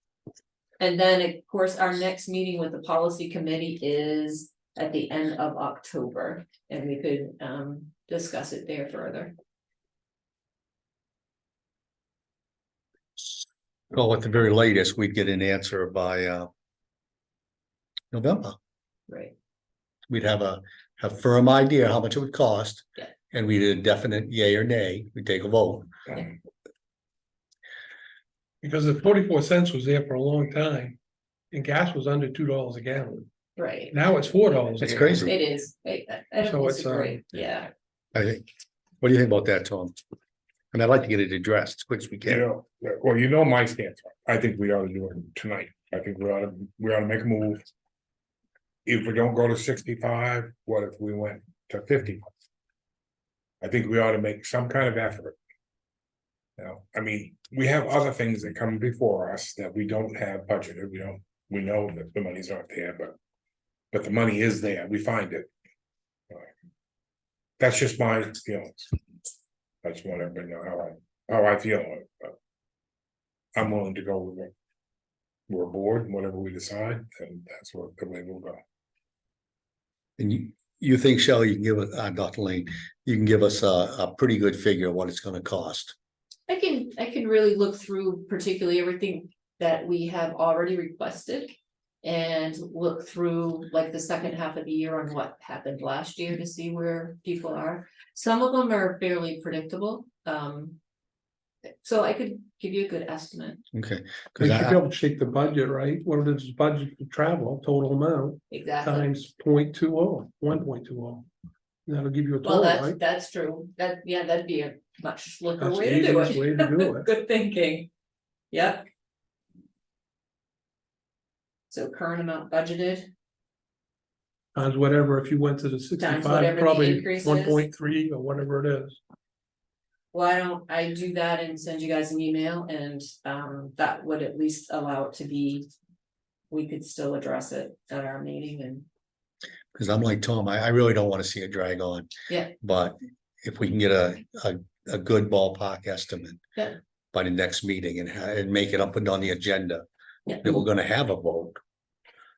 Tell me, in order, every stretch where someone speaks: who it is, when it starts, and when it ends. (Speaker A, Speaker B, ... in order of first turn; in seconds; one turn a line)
Speaker A: 0.8-9.3
Speaker B: 13.2-16.5
Speaker B: 18.1-18.6
Speaker A: 19.1-19.3
Speaker B: 20.1-25.9
Speaker C: 28.6-31.0
Speaker C: 31.5-33.3
Speaker A: 33.5-34.0
Speaker C: 33.9-35.3
Speaker B: 34.8-35.4
Speaker A: 35.2-37.7
Speaker C: 36.4-37.2
Speaker B: 38.1-38.4
Speaker B: 39.0-39.9
Speaker B: 40.7-42.4
Speaker D: 42.2-47.6
Speaker D: 48.8-52.2
Speaker D: 53.6-55.4
Speaker D: 56.6-63.1
Speaker D: 63.9-65.5
Speaker D: 67.6-68.9
Speaker D: 69.8-72.3
Speaker D: 73.5-74.5
Speaker D: 75.5-78.6
Speaker B: 80.2-85.9
Speaker A: 86.5-100.8
Speaker A: 101.8-103.6
Speaker B: 103.7-104.8
Speaker C: 104.4-111.3
Speaker A: 108.5-109.1
Speaker C: 111.8-113.0
Speaker A: 112.4-117.9
Speaker C: 115.6-117.1
Speaker A: 118.5-118.8
Speaker A: 121.7-123.1
Speaker C: 124.5-129.0
Speaker A: 126.0-127.6
Speaker A: 130.1-135.7
Speaker A: 136.5-138.8
Speaker B: 139.7-146.4
Speaker B: 147.1-149.8
Speaker B: 150.4-151.6